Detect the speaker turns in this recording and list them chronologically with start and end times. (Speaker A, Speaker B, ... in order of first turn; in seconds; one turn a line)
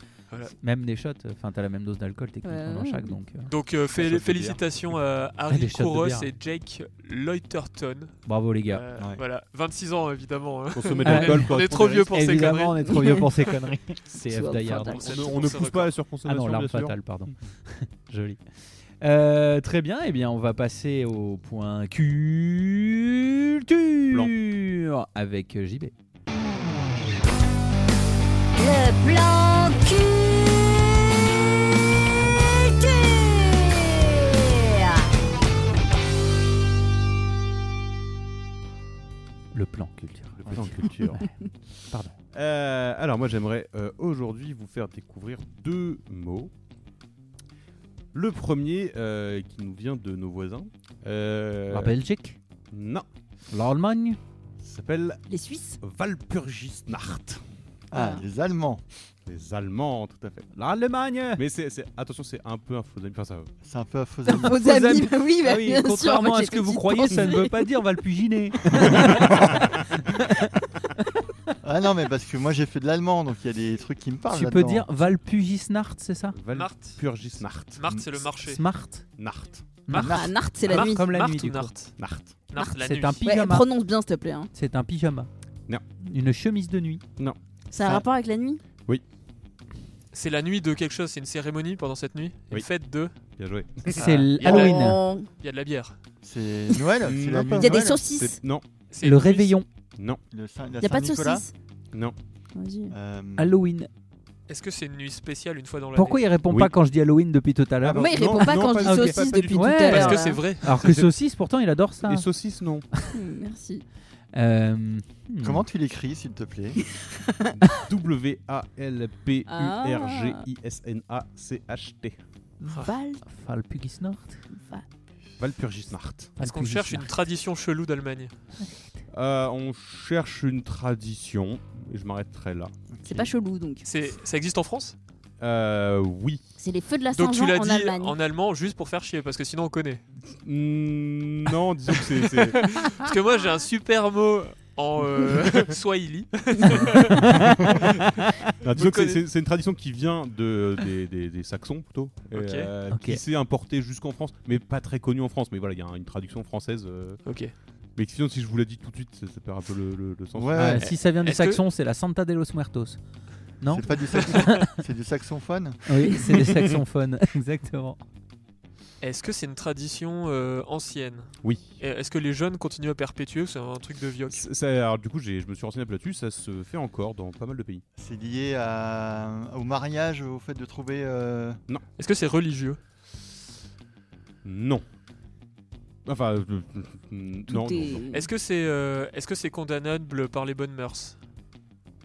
Speaker A: 0.5-3.5
Speaker B: 2.4-3.2
Speaker C: 3.5-8.2
Speaker D: 3.9-4.6
Speaker A: 5.5-6.3
Speaker A: 8.2-8.8
Speaker C: 8.7-13.3
Speaker D: 10.7-12.1
Speaker A: 11.0-15.0
Speaker B: 14.2-15.4
Speaker C: 14.7-16.0
Speaker D: 14.9-17.0
Speaker A: 16.2-18.4
Speaker A: 19.0-25.9
Speaker D: 24.1-24.4
Speaker E: 28.6-30.5
Speaker E: 32.9-34.8
Speaker A: 39.5-41.3
Speaker D: 40.2-41.2
Speaker F: 40.5-40.8
Speaker D: 42.3-46.5
Speaker D: 48.1-52.0
Speaker A: 51.7-52.4
Speaker D: 52.7-53.1
Speaker A: 53.5-54.2
Speaker D: 54.6-55.2
Speaker B: 55.3-55.8
Speaker D: 55.8-57.4
Speaker F: 57.9-58.8
Speaker B: 57.9-58.2
Speaker D: 59.2-60.5
Speaker A: 60.5-61.4
Speaker D: 61.3-63.5
Speaker F: 63.6-64.6
Speaker B: 64.3-67.6
Speaker A: 64.4-70.5
Speaker F: 69.0-69.5
Speaker D: 69.0-69.7
Speaker F: 71.6-74.9
Speaker A: 74.3-76.3
Speaker D: 76.3-77.8
Speaker C: 76.5-77.2
Speaker C: 77.7-78.6
Speaker A: 78.4-79.0
Speaker D: 79.2-79.7
Speaker A: 79.8-81.7
Speaker C: 79.9-82.0
Speaker F: 79.9-80.4
Speaker B: 80.1-81.1
Speaker D: 82.0-82.4
Speaker C: 82.5-83.2
Speaker B: 82.5-84.5
Speaker A: 82.7-83.7
Speaker A: 84.5-85.3
Speaker A: 86.0-87.0
Speaker B: 87.7-88.6
Speaker C: 90.1-93.1
Speaker D: 93.3-94.0
Speaker A: 94.0-95.0
Speaker C: 94.4-95.9
Speaker B: 94.4-95.3
Speaker F: 96.2-98.0
Speaker D: 97.0-98.6
Speaker B: 97.5-98.4
Speaker C: 98.9-99.5
Speaker A: 99.0-99.7
Speaker F: 100.3-101.4
Speaker B: 100.8-101.5
Speaker B: 102.5-102.9
Speaker F: 102.9-103.5
Speaker A: 103.4-103.9
Speaker C: 104.5-106.3
Speaker A: 105.9-112.3
Speaker D: 107.8-109.9
Speaker B: 107.9-110.5
Speaker C: 109.9-111.0
Speaker D: 110.7-111.1
Speaker D: 112.0-112.8
Speaker B: 113.1-113.8
Speaker A: 114.3-115.6
Speaker F: 115.4-116.8
Speaker D: 117.5-122.2
Speaker B: 119.5-120.4
Speaker B: 122.8-123.2
Speaker A: 123.2-124.4
Speaker B: 124.5-124.8
Speaker D: 125.4-126.3
Speaker A: 126.4-127.1
Speaker C: 126.4-128.3
Speaker A: 128.6-129.0
Speaker D: 129.1-132.7
Speaker F: 132.9-133.3
Speaker B: 133.0-133.8
Speaker C: 133.8-134.9
Speaker D: 135.4-136.4
Speaker B: 136.6-138.1
Speaker C: 137.1-140.0
Speaker D: 140.4-142.8
Speaker C: 142.0-147.9
Speaker A: 147.2-147.7
Speaker D: 148.6-157.3
Speaker C: 148.7-149.2
Speaker C: 152.3-152.7
Speaker A: 152.9-153.2
Speaker C: 157.2-157.5
Speaker D: 157.9-160.8
Speaker F: 160.3-160.9
Speaker A: 160.6-163.0
Speaker C: 160.9-161.6
Speaker A: 163.6-164.6
Speaker F: 163.7-166.4
Speaker C: 164.2-164.6
Speaker A: 165.9-168.0
Speaker D: 166.5-166.7
Speaker C: 169.0-174.4
Speaker D: 171.4-171.7
Speaker D: 174.3-177.8
Speaker F: 178.0-181.6
Speaker C: 182.0-182.8
Speaker D: 184.4-184.8
Speaker D: 186.1-188.0
Speaker B: 187.5-188.3
Speaker C: 188.1-191.2